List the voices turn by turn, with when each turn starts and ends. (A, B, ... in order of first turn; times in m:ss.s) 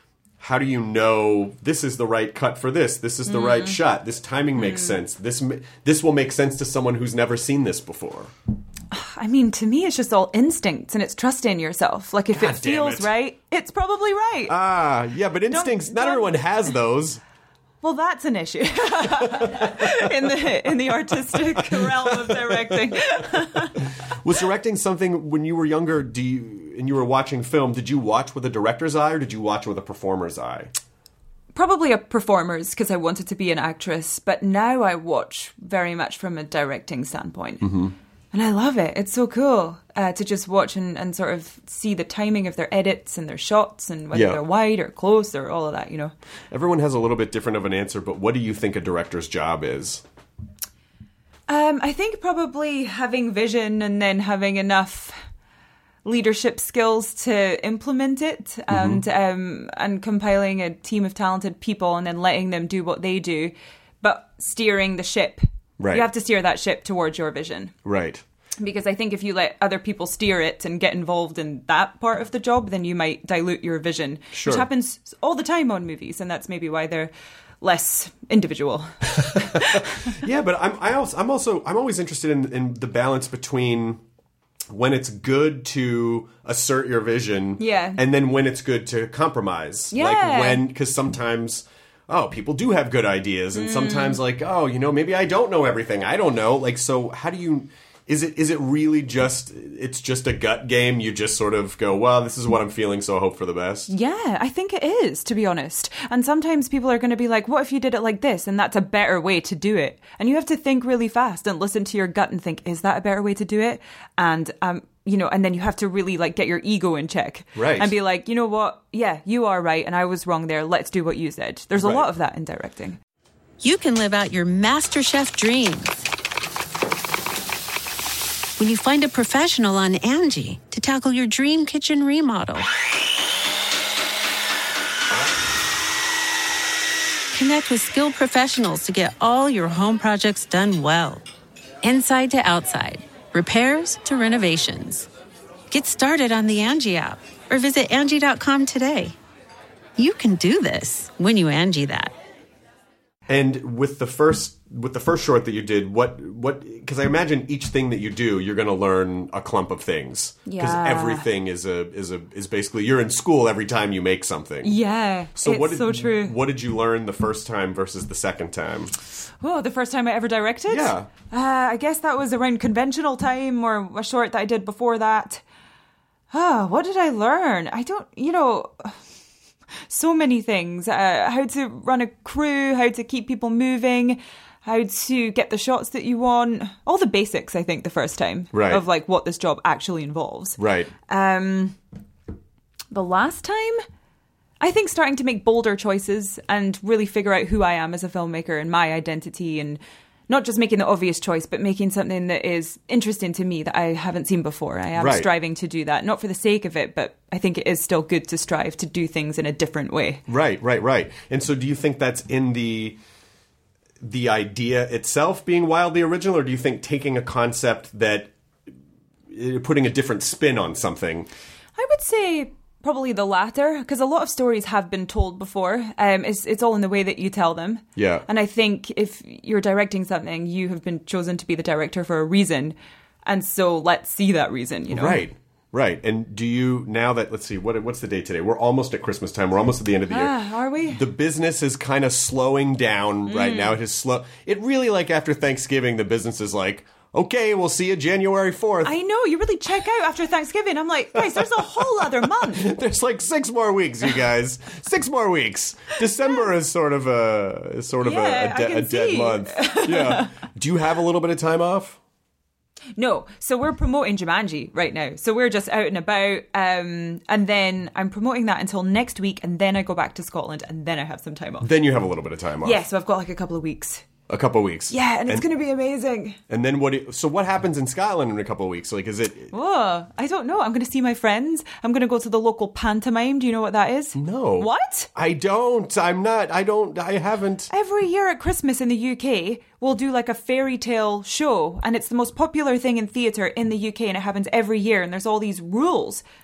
0:00.4-0:08.3 A
0:03.2-0:03.8 B
0:04.6-0:05.0 B
0:08.9-0:14.5 B
0:12.3-0:13.1 A
0:14.5-0:17.2 A
0:15.5-0:16.4 B
0:17.8-0:23.9 B
0:19.2-0:20.4 A
0:21.3-0:23.0 A
0:24.0-0:30.7 A
0:31.5-0:37.7 B
0:37.6-0:37.9 A
0:38.3-0:46.1 B
0:44.1-0:44.4 A
0:46.5-0:50.0 A
0:51.5-0:55.2 B
0:56.0-1:07.7 B
0:58.7-0:59.0 A
1:05.8-1:06.1 A
1:07.8-1:08.2 A
1:08.6-1:20.1 B
1:14.3-1:14.7 A
1:19.2-1:24.0 A
1:24.7-1:43.9 A
1:27.6-1:28.0 B
1:29.9-1:30.6 B
1:33.5-1:34.2 B
1:43.9-2:03.0 B
1:57.5-1:57.9 A
2:01.8-2:02.1 A
2:03.6-2:06.1 C
2:08.6-2:12.7 C
2:17.3-2:21.2 C
2:21.8-2:25.1 C
2:25.7-2:29.2 C
2:30.0-2:32.1 C
2:33.3-2:44.8 A
2:40.4-2:41.3 B
2:44.6-2:46.4 B
2:45.3-2:48.9 A
2:49.4-2:55.4 B
2:50.7-2:51.1 A
2:56.3-2:59.0 B
2:59.9-3:11.8 B
3:08.5-3:08.8 A
3:10.6-3:10.9 A
3:12.9-3:13.8 B
3:14.6-3:30.2 B
3:25.0-3:25.3 A
3:30.3-3:33.0 A
3:34.0-3:38.3 A
3:39.3-3:41.3 A
3:41.8-3:55.2 B
3:48.0-3:48.2 A
3:54.9-4:00.3 A
4:00.1-4:01.0 B
4:00.8-4:08.9 A
4:03.3-4:03.8 B
4:08.8-4:12.7 B
4:11.1-4:22.0 A
4:18.0-4:20.3 B
4:23.0-4:31.7 B
4:31.6-4:32.8 A
4:32.6-4:34.0 B
4:34.3-4:35.5 A
4:34.9-4:36.4 B
4:36.5-4:39.5 A
4:39.5-4:45.1 B
4:44.1-4:47.7 A
4:47.7-4:56.2 B